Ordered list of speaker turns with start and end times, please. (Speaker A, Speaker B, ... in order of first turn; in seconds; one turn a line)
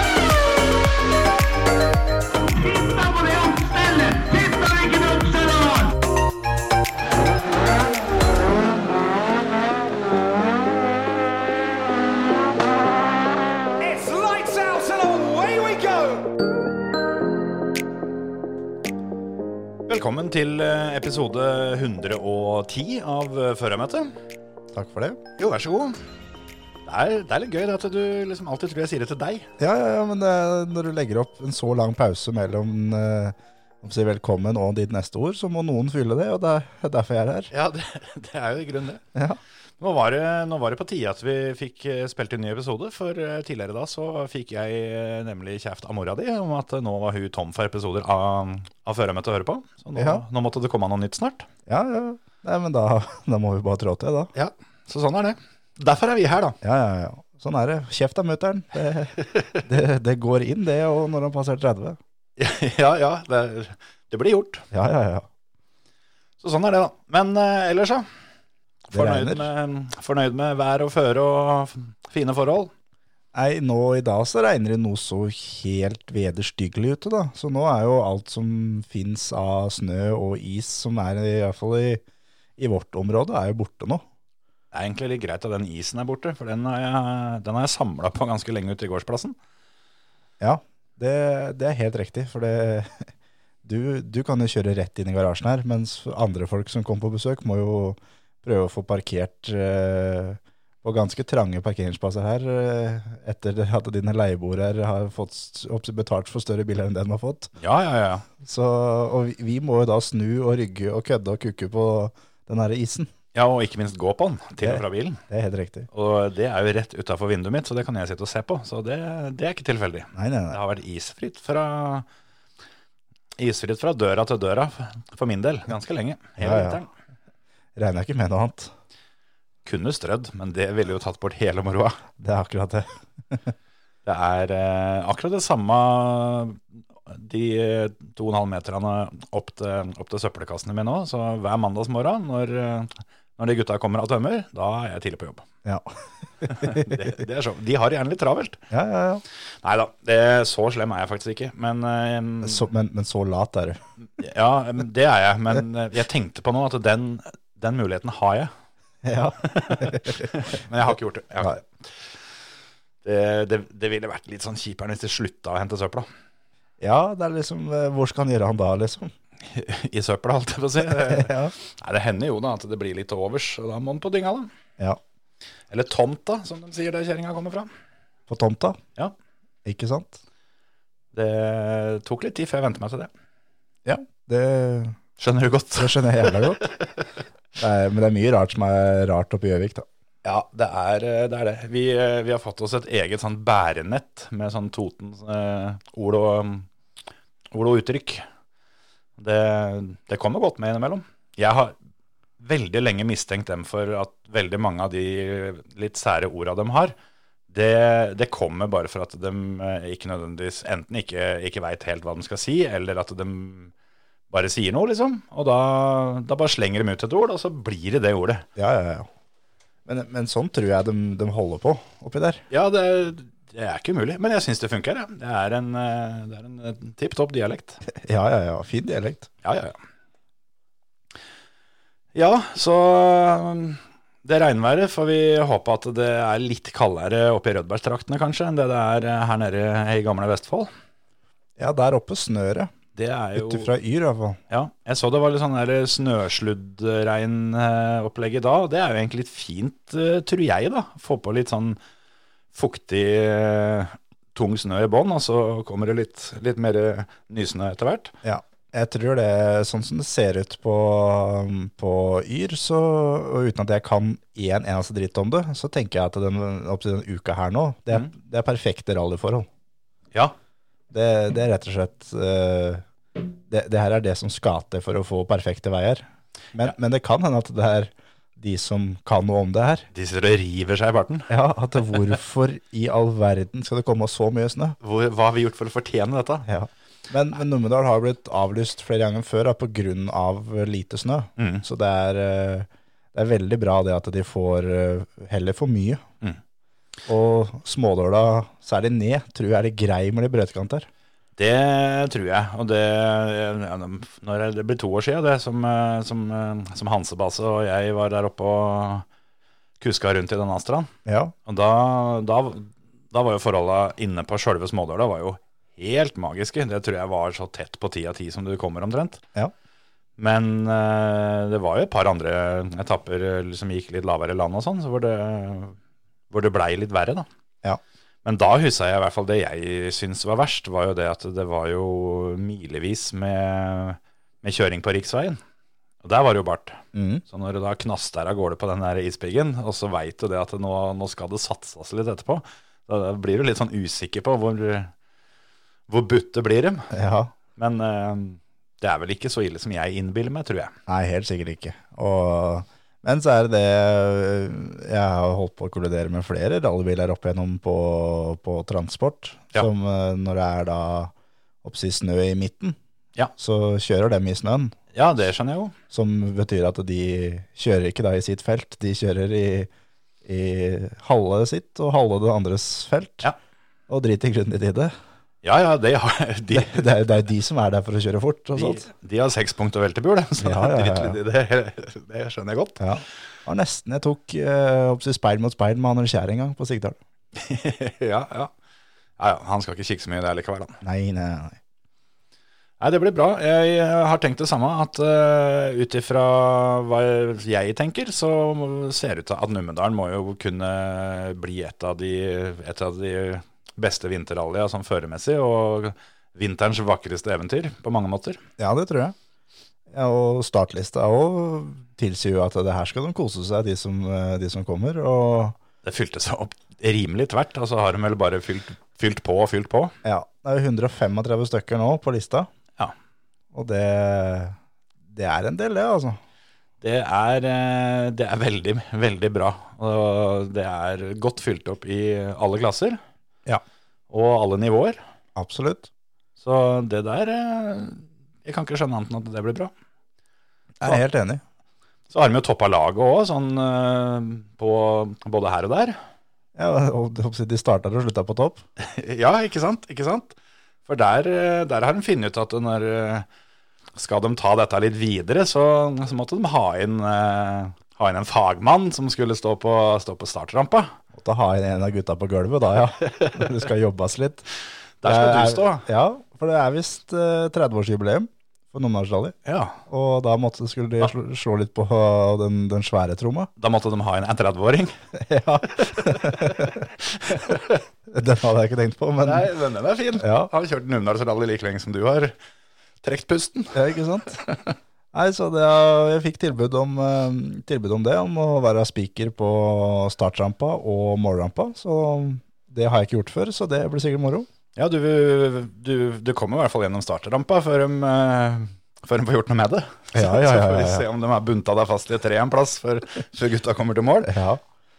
Speaker A: 2.4-6.0
Speaker A: 13.8-16.2
Speaker B: 19.9-24.1
Speaker C: 24.7-25.2
Speaker B: 25.4-26.0
Speaker B: 26.9-29.5
Speaker C: 29.6-37.5
Speaker B: 37.5-39.0
Speaker B: 39.8-51.5
Speaker C: 50.0-50.2
Speaker C: 51.7-54.3
Speaker B: 54.4-56.6
Speaker C: 56.6-62.0
Speaker B: 62.4-64.7
Speaker C: 64.7-65.3
Speaker B: 66.4-68.1
Speaker B: 68.9-72.7
Speaker C: 68.9-69.5
Speaker C: 73.3-82.0
Speaker C: 82.6-84.0
Speaker B: 84.7-89.4
Speaker C: 90.4-93.1
Speaker C: 93.6-107.5
Speaker B: 107.6-108.3
Speaker C: 108.4-113.1
Speaker B: 113.3-115.2
Speaker C: 114.6-115.9
Speaker B: 115.9-122.1
Speaker C: 120.2-120.6
Speaker B: 123.4-126.9
Speaker C: 126.4-126.8
Speaker C: 127.8-128.7
Speaker B: 129.7-132.0
Speaker C: 132.2-133.5
Speaker B: 134.1-145.5
Speaker C: 145.6-145.9
Speaker C: 146.4-147.1
Speaker B: 146.4-148.6
Speaker C: 148.7-149.2
Speaker B: 149.6-152.7
Speaker C: 152.4-153.8
Speaker B: 154.2-158.5
Speaker C: 159.0-160.3
Speaker B: 159.5-162.1
Speaker B: 163.0-166.1
Speaker C: 166.8-169.1
Speaker B: 169.5-174.5
Speaker C: 170.8-171.5
Speaker B: 175.7-177.7
Speaker C: 178.3-178.8
Speaker C: 179.7-180.2
Speaker B: 181.1-183.1
Speaker C: 183.8-185.0
Speaker B: 185.2-186.3
Speaker C: 185.8-186.7
Speaker C: 187.6-189.9
Speaker B: 190.2-196.7
Speaker B: 197.5-198.2
Speaker B: 199.2-201.8
Speaker B: 202.4-206.9
Speaker B: 207.5-213.7
Speaker B: 214.3-218.4
Speaker C: 218.6-219.1
Speaker C: 219.9-222.4
Speaker B: 222.5-227.8
Speaker C: 227.8-229.3
Speaker B: 229.4-229.8
Speaker B: 232.2-240.7
Speaker C: 241.6-242.7
Speaker B: 243.0-243.7
Speaker C: 243.4-244.4
Speaker B: 244.5-251.8
Speaker B: 252.5-258.1
Speaker C: 258.2-269.5
Speaker C: 270.9-272.9
Speaker C: 273.5-279.9
Speaker B: 279.9-281.3
Speaker C: 281.3-284.8
Speaker B: 284.8-286.5
Speaker C: 286.5-296.0
Speaker B: 291.4-291.6
Speaker C: 297.1-300.9
Speaker B: 301.4-309.1
Speaker B: 309.8-310.9
Speaker C: 311.1-311.3
Speaker B: 311.5-319.2
Speaker B: 320.2-325.8
Speaker B: 326.3-327.3
Speaker B: 328.2-335.4
Speaker B: 336.0-344.9
Speaker C: 336.9-337.2
Speaker B: 345.9-346.9
Speaker C: 346.9-347.3
Speaker B: 347.6-350.8
Speaker C: 350.9-361.1
Speaker C: 361.6-362.8
Speaker C: 363.4-364.8
Speaker B: 364.9-365.7
Speaker C: 365.9-369.7
Speaker C: 370.2-373.3
Speaker C: 373.9-374.9
Speaker B: 375.4-376.9
Speaker C: 376.5-378.9
Speaker B: 378.6-382.8
Speaker C: 380.4-381.2
Speaker C: 382.8-387.0
Speaker B: 387.4-388.5
Speaker B: 389.2-390.8
Speaker C: 390.8-391.6
Speaker B: 392.8-408.4
Speaker C: 408.6-409.1
Speaker C: 409.9-415.6
Speaker B: 415.8-419.9
Speaker C: 420.0-422.5
Speaker C: 423.5-424.6
Speaker C: 425.1-426.2
Speaker B: 426.8-433.0
Speaker B: 434.1-435.0
Speaker C: 435.4-435.9
Speaker B: 436.4-439.7
Speaker C: 440.8-441.4
Speaker B: 442.1-446.0
Speaker C: 446.6-448.6
Speaker B: 448.8-450.4
Speaker B: 450.9-453.3
Speaker B: 454.0-460.9
Speaker C: 461.1-464.5
Speaker B: 465.0-465.9
Speaker C: 465.0-469.4
Speaker B: 469.5-469.8
Speaker C: 469.9-473.5
Speaker B: 473.6-475.0
Speaker C: 475.2-476.9
Speaker B: 475.9-476.7
Speaker B: 477.3-477.7
Speaker C: 478.1-479.5
Speaker B: 479.2-482.3
Speaker C: 480.2-480.5
Speaker B: 483.0-483.8
Speaker C: 483.7-484.4
Speaker C: 485.1-494.5
Speaker B: 494.8-504.3
Speaker C: 500.1-501.1
Speaker C: 504.2-504.6